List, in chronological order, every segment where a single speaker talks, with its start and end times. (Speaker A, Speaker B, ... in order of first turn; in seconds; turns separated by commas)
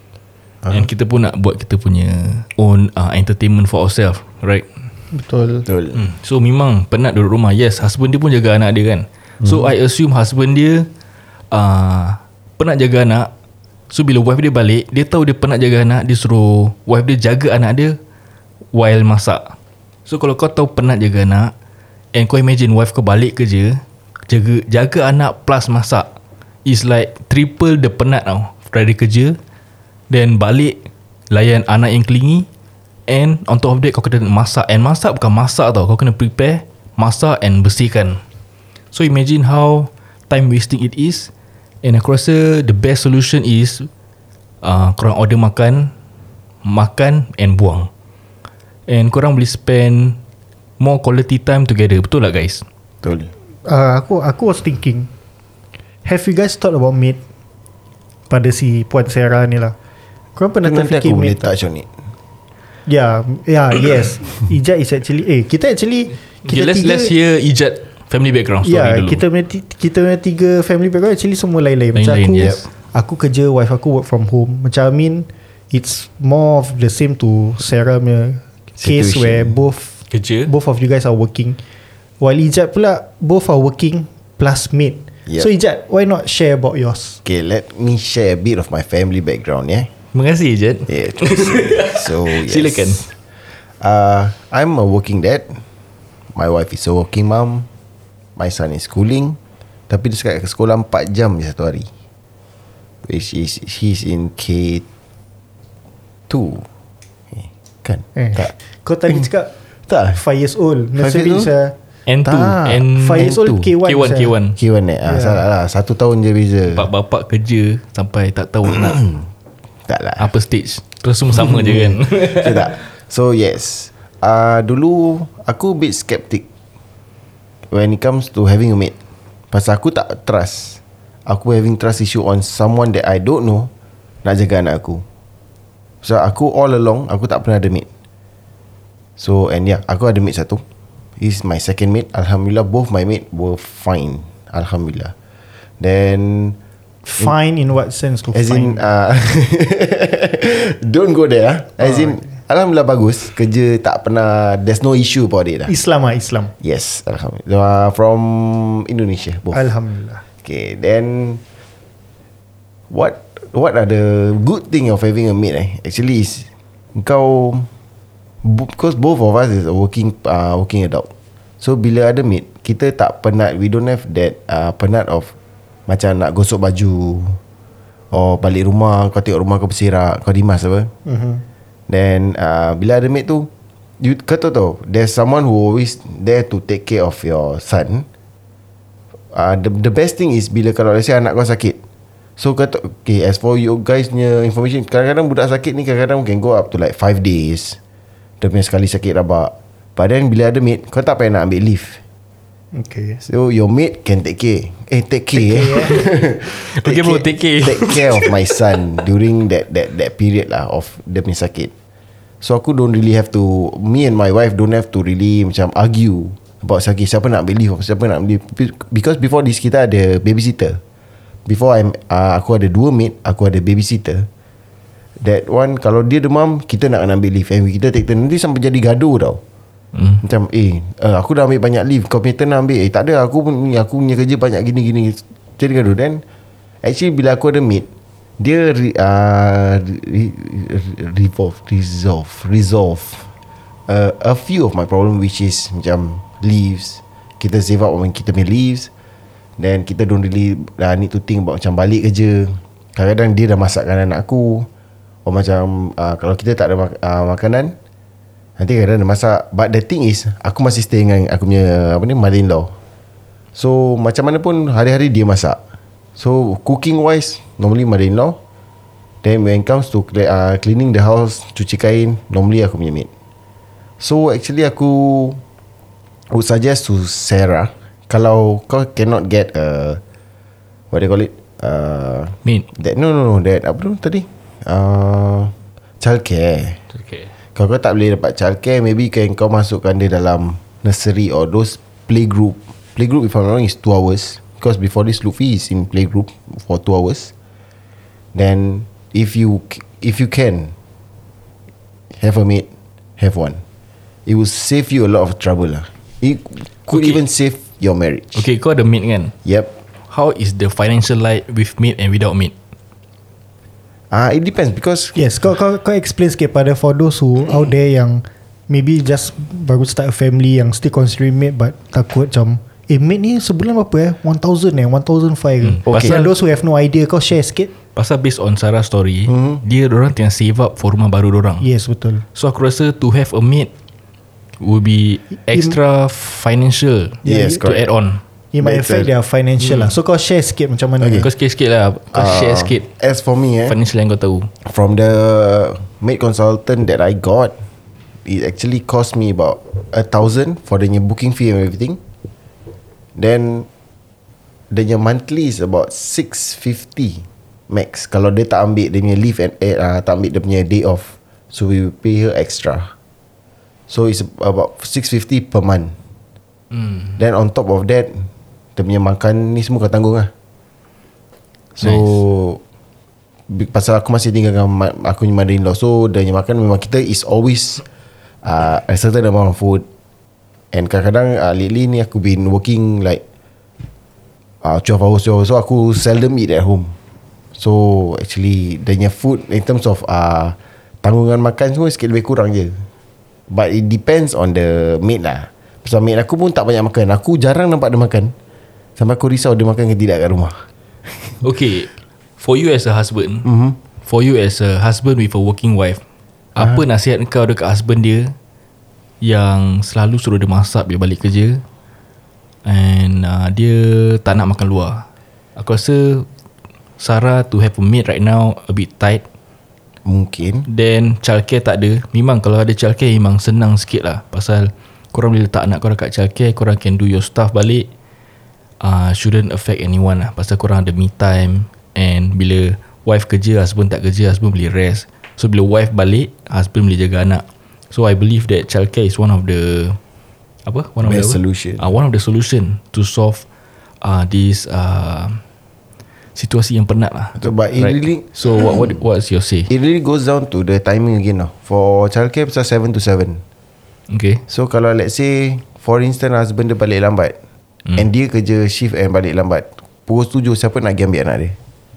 Speaker A: 0.6-0.9, Speaker B: 0.7-4.7, Speaker C: 5.1-5.7, Speaker A: 5.7-6.0, Speaker B: 5.9-10.9, Speaker A: 9.4-9.7, Speaker B: 11.5-13.3, Speaker B: 13.9-17.9, Speaker B: 18.7-19.5, Speaker B: 20.1-21.5, Speaker B: 22.1-26.1, Speaker B: 26.6-29.4, Speaker B: 30.1-30.8, Speaker B: 31.3-32.5, Speaker B: 33.1-38.2, Speaker B: 38.9-41.3, Speaker B: 41.8-43.9, Speaker B: 44.6-45.9, Speaker B: 46.6-47.9, Speaker B: 48.9-50.2, Speaker B: 50.8-52.6, Speaker A: 53.0-53.3, Speaker C: 53.6-55.1, Speaker C: 56.0-57.2, Speaker C: 58.3-59.7, Speaker C: 60.4-61.5, Speaker A: 60.6-61.9, Speaker C: 62.9-67.1, Speaker B: 66.4-69.2, Speaker C: 68.6-81.6, Speaker B: 71.9-72.6, Speaker A: 78.8-79.6, Speaker B: 80.1-80.5, Speaker C: 82.2-87.2, Speaker A: 87.2-89.9, Speaker B: 90.1-93.0, Speaker A: 90.9-93.1, Speaker A: 93.8-95.6, Speaker A: 96.3-97.7, Speaker A: 98.3-99.4, Speaker A: 99.9-101.9, Speaker A: 103.0-104.8, Speaker A: 106.3-106.7, Speaker A: 107.3-108.5, Speaker C: 108.1-109.5, Speaker A: 109.9-110.2, Speaker C: 110.1-111.7, Speaker A: 111.0-111.5, Speaker B: 112.1-114.6, Speaker A: 112.2-113.7, Speaker C: 112.9-114.3, Speaker A: 114.6-116.9, Speaker C: 115.0-115.4, Speaker B: 116.7-119.0, Speaker A: 118.8-119.2, Speaker A: 119.9-120.3, Speaker B: 120.2-122.7, Speaker A: 121.3-126.4, Speaker A: 127.7-128.9, Speaker A: 129.5-133.7, Speaker A: 134.2-135.0, Speaker A: 136.0-137.9, Speaker A: 139.2-140.6, Speaker A: 141.2-145.1, Speaker A: 145.8-146.6, Speaker C: 147.0-148.8, Speaker A: 148.3-155.7, Speaker C: 151.8-152.2, Speaker C: 155.7-156.5, Speaker A: 156.6-159.7, Speaker C: 159.5-160.2, Speaker A: 160.4-161.4, Speaker A: 162.9-167.7, Speaker A: 168.4-171.1, Speaker A: 171.6-175.3, Speaker A: 175.9-177.4, Speaker A: 178.1-180.9, Speaker C: 181.1-181.4, Speaker A: 181.9-183.5, Speaker A: 184.0-188.1, Speaker A: 189.3-191.8, Speaker A: 192.4-197.8, Speaker A: 198.4-202.0, Speaker C: 202.7-203.2, Speaker A: 203.2-211.7, Speaker C: 205.3-206.0, Speaker B: 206.4-208.5, Speaker A: 212.4-220.8, Speaker A: 221.4-224.3, Speaker A: 225.2-229.4, Speaker B: 229.9-230.2, Speaker A: 230.2-236.2, Speaker A: 236.8-237.9, Speaker A: 238.4-243.3, Speaker A: 243.9-248.9, Speaker A: 249.6-254.7, Speaker A: 255.2-257.7, Speaker A: 258.6-262.7, Speaker A: 263.5-265.6, Speaker A: 266.2-268.4, Speaker A: 269.2-273.1, Speaker A: 274.0-275.4, Speaker A: 276.3-280.0, Speaker A: 280.9-286.8, Speaker B: 286.9-287.3, Speaker A: 287.5-297.3, Speaker A: 298.3-300.7, Speaker A: 302.1-302.7, Speaker A: 303.2-303.6, Speaker A: 304.2-308.4, Speaker B: 306.9-307.2, Speaker B: 308.3-309.3, Speaker A: 309.4-309.7, Speaker B: 310.1-312.5, Speaker A: 314.1-315.2, Speaker C: 315.1-327.7, Speaker B: 325.6-326.3, Speaker A: 325.9-326.2, Speaker B: 327.9-331.6, Speaker A: 329.3-329.6, Speaker C: 331.6-332.2, Speaker B: 332.3-333.7, Speaker B: 334.6-338.2, Speaker C: 335.5-335.8, Speaker C: 337.2-337.6, Speaker A: 337.2-337.9, Speaker C: 338.5-341.2, Speaker A: 338.6-339.1, Speaker B: 339.6-339.9, Speaker A: 341.0-341.3, Speaker B: 341.1-342.9, Speaker A: 342.1-343.8, Speaker B: 343.6-344.5, Speaker A: 344.6-347.5, Speaker A: 348.2-352.0, Speaker A: 353.1-353.7, Speaker A: 354.7-362.9, Speaker A: 363.9-366.0, Speaker B: 366.7-367.1, Speaker A: 367.2-370.3, Speaker A: 371.8-372.6, Speaker B: 371.8-372.2, Speaker A: 373.5-377.8, Speaker A: 378.4-379.9, Speaker A: 380.7-383.2, Speaker A: 384.6-386.9, Speaker A: 387.6-392.9, Speaker A: 393.5-398.3, Speaker A: 399.0-400.6, Speaker B: 401.4-403.5, Speaker A: 403.4-403.8, Speaker B: 404.0-406.0, Speaker B: 406.5-408.3, Speaker A: 406.6-406.8, Speaker B: 409.2-411.6, Speaker B: 412.6-415.0, Speaker B: 415.6-416.2, Speaker B: 417.0-419.2, Speaker A: 420.0-420.7, Speaker B: 420.7-427.9, Speaker B: 428.8-440.0, Speaker B: 440.6-443.4, Speaker A: 441.0-441.8, Speaker B: 444.0-445.4, Speaker B: 446.3-449.7, Speaker A: 447.4-448.9, Speaker A: 449.7-453.4, Speaker B: 454.1-454.4, Speaker A: 454.5-457.4, Speaker A: 457.9-461.6